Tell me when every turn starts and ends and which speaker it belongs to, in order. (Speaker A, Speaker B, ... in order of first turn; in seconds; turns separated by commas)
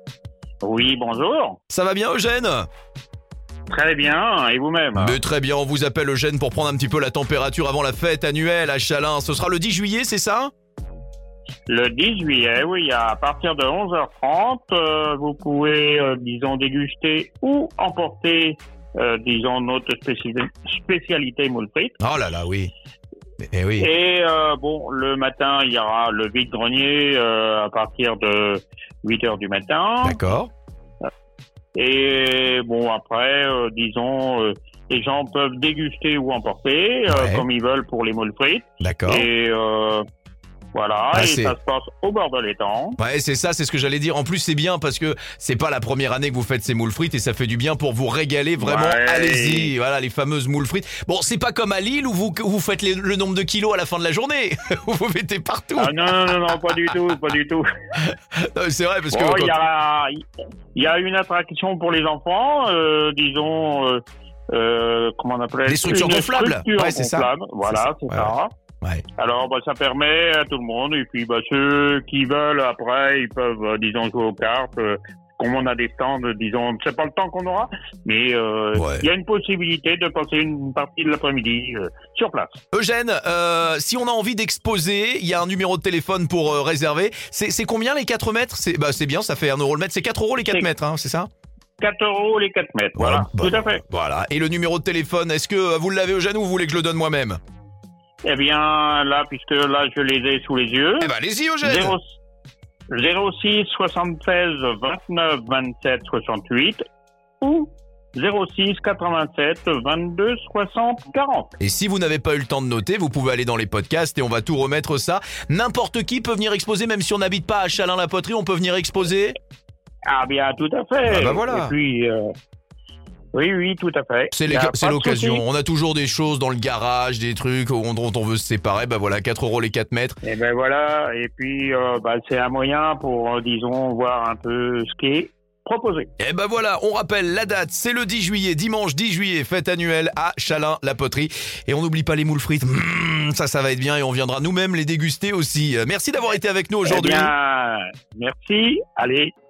Speaker A: 0.6-1.6, Speaker B: 1.7-2.7, Speaker A: 3.7-5.2, Speaker B: 5.0-10.5, Speaker A: 11.7-21.9, Speaker B: 22.0-22.7, Speaker B: 23.4-23.9, Speaker A: 23.8-30.2, Speaker B: 30.0-30.5, Speaker A: 31.7-40.0, Speaker B: 37.1-37.4, Speaker B: 38.8-39.3, Speaker A: 40.7-43.0, Speaker B: 41.1-41.5, Speaker B: 43.0-56.9, Speaker A: 48.6-49.7, Speaker A: 55.8-57.6, Speaker B: 58.0-59.6, Speaker A: 59.1-68.5, Speaker B: 65.7-69.0, Speaker A: 69.2-82.6, Speaker B: 78.7-79.1, Speaker B: 82.7-91.3, Speaker A: 91.8-93.8, Speaker B: 93.0-97.4, Speaker A: 98.2-102.1, Speaker B: 101.0-102.0, Speaker A: 102.9-106.8, Speaker A: 107.4-111.5, Speaker B: 111.6-119.3, Speaker A: 120.0-122.3, Speaker B: 121.0-121.7, Speaker A: 123.3-125.4, Speaker B: 124.3-130.2, Speaker A: 130.2-136.1, Speaker B: 136.2-147.3, Speaker A: 146.8-149.3